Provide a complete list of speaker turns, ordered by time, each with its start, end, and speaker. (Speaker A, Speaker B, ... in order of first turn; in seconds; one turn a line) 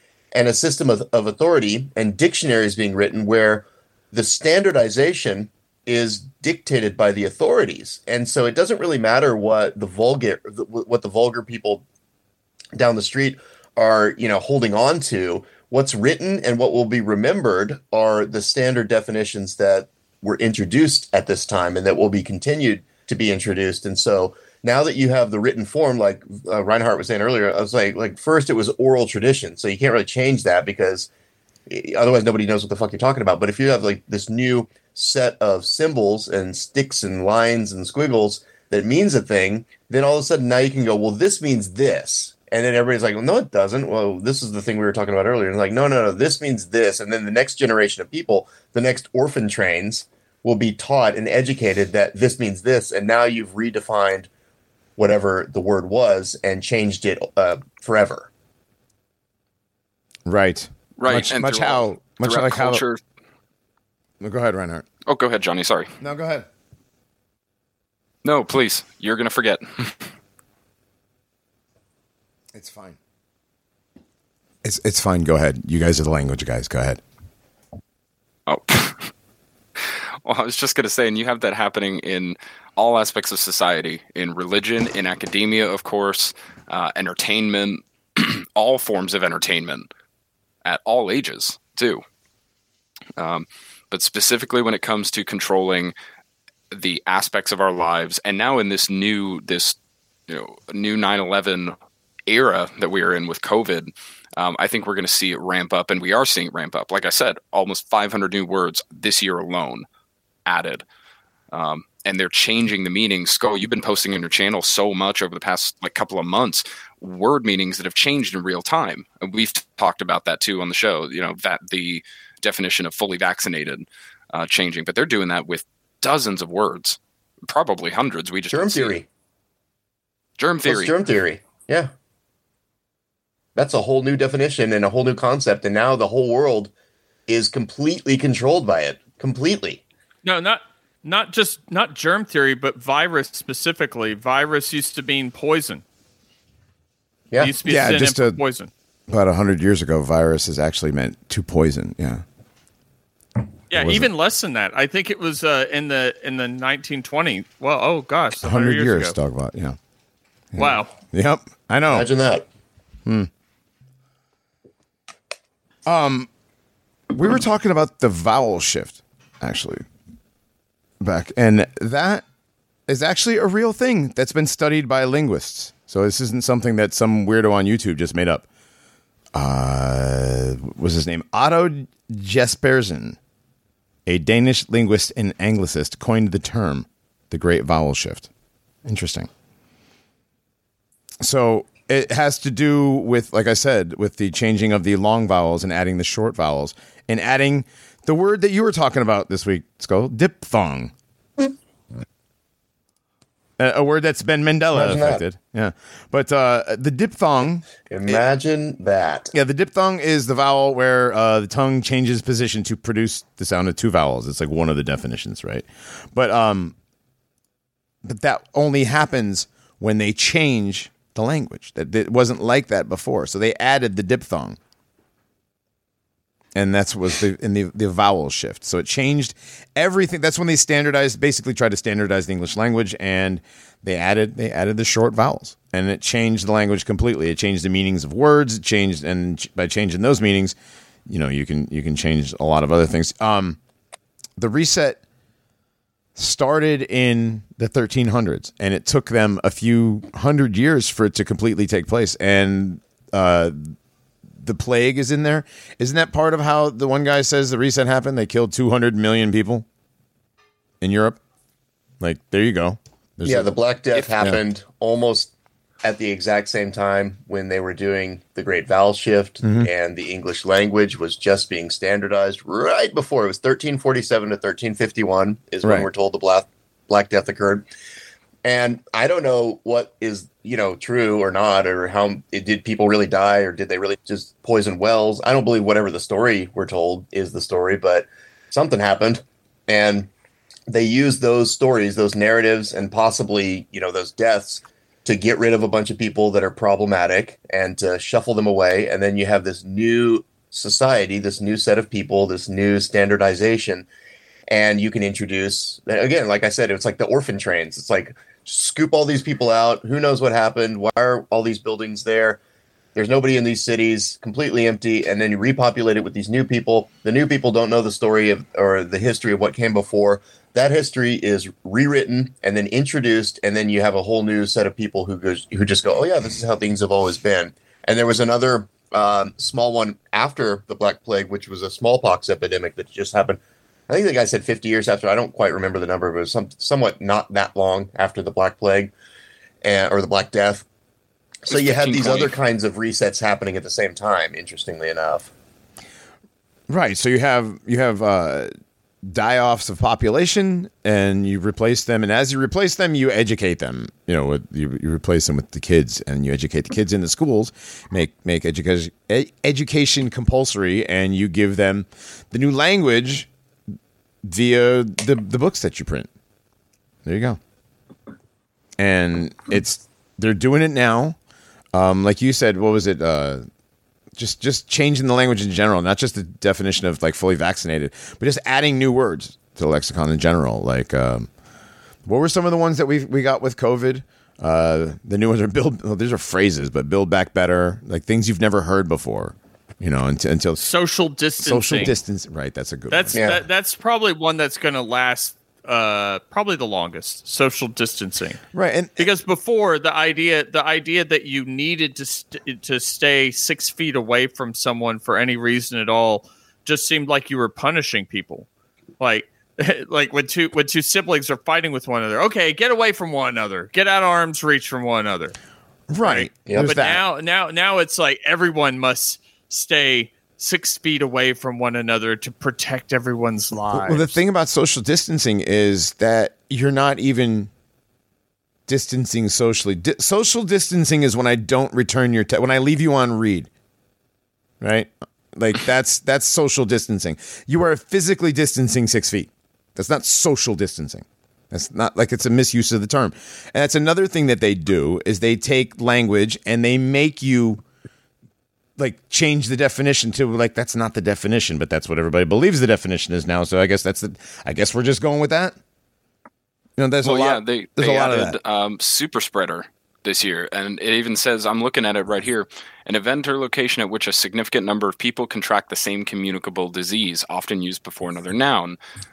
Speaker A: 0.3-11.8
Speaker A: 12.7-31.1
Speaker A: 31.7-54.3
Speaker A: 55.0-58.3
Speaker B: 60.2-62.8
Speaker C: 61.0-63.0
Speaker B: 64.2-64.8
Speaker C: 65.1-65.9
Speaker B: 66.0-66.5
Speaker C: 68.2-70.1
Speaker B: 72.5-73.0
Speaker B: 74.6-77.0
Speaker C: 78.5-79.1
Speaker C: 79.8-89.9
Speaker C: 90.6-92.0
Speaker C: 93.2-95.9
Speaker C: 96.7-99.8
Speaker C: 100.3-101.7
Speaker C: 102.3-109.8
Speaker C: 110.5-110.8
Speaker C: 111.5-128.9
Speaker A: 128.5-129.1
Speaker C: 130.4-130.9
Speaker A: 130.7-131.9
Speaker A: 133.5-136.7
Speaker A: 137.3-139.8
Speaker D: 140.2-145.8
Speaker D: 147.4-148.7
Speaker B: 147.6-148.4
Speaker B: 149.1-152.2
Speaker D: 153.7-159.2
Speaker B: 153.7-154.1
Speaker B: 158.4-159.8
Speaker B: 160.5-162.1
Speaker D: 160.5-160.9
Speaker A: 161.9-162.4
Speaker B: 165.8-166.3
Speaker B: 167.1-169.8
Speaker B: 171.0-172.2
Speaker B: 172.9-178.4
Speaker B: 179.3-183.2
Speaker B: 184.1-188.3
Speaker B: 188.8-189.3
Speaker B: 191.2-200.9
Speaker B: 203.6-208.2
Speaker A: 204.7-205.2
Speaker A: 207.9-209.3
Speaker B: 209.3-216.7
Speaker B: 218.0-224.6
Speaker B: 226.5-240.6
Speaker B: 241.1-243.6
Speaker B: 244.4-245.0
Speaker B: 246.2-253.8
Speaker B: 254.4-259.6
Speaker B: 260.8-261.2
Speaker B: 262.0-264.4
Speaker A: 263.2-265.3
Speaker A: 265.8-277.7
Speaker B: 269.4-269.7
Speaker B: 275.6-275.9
Speaker A: 278.4-290.1
Speaker A: 290.7-303.9
Speaker A: 304.5-312.4
Speaker A: 312.9-338.9
Speaker A: 339.6-340.6
Speaker A: 341.4-345.3
Speaker C: 341.5-342.4
Speaker B: 346.7-348.5
Speaker B: 349.0-363.3
Speaker B: 364.2-366.1
Speaker B: 367.0-367.4
Speaker B: 368.8-371.1
Speaker B: 371.7-373.4
Speaker B: 374.1-381.3
Speaker B: 382.0-390.6
Speaker D: 390.6-391.9
Speaker B: 391.4-393.3
Speaker D: 392.9-398.4
Speaker A: 393.1-393.4
Speaker B: 398.5-398.9
Speaker D: 398.9-408.5
Speaker D: 409.0-415.4
Speaker B: 415.9-417.0
Speaker D: 416.0-424.2
Speaker A: 416.5-416.8
Speaker B: 423.7-427.5
Speaker B: 428.7-433.5
Speaker B: 434.6-447.6
Speaker B: 448.8-455.6
Speaker B: 456.8-458.4
Speaker C: 457.0-468.8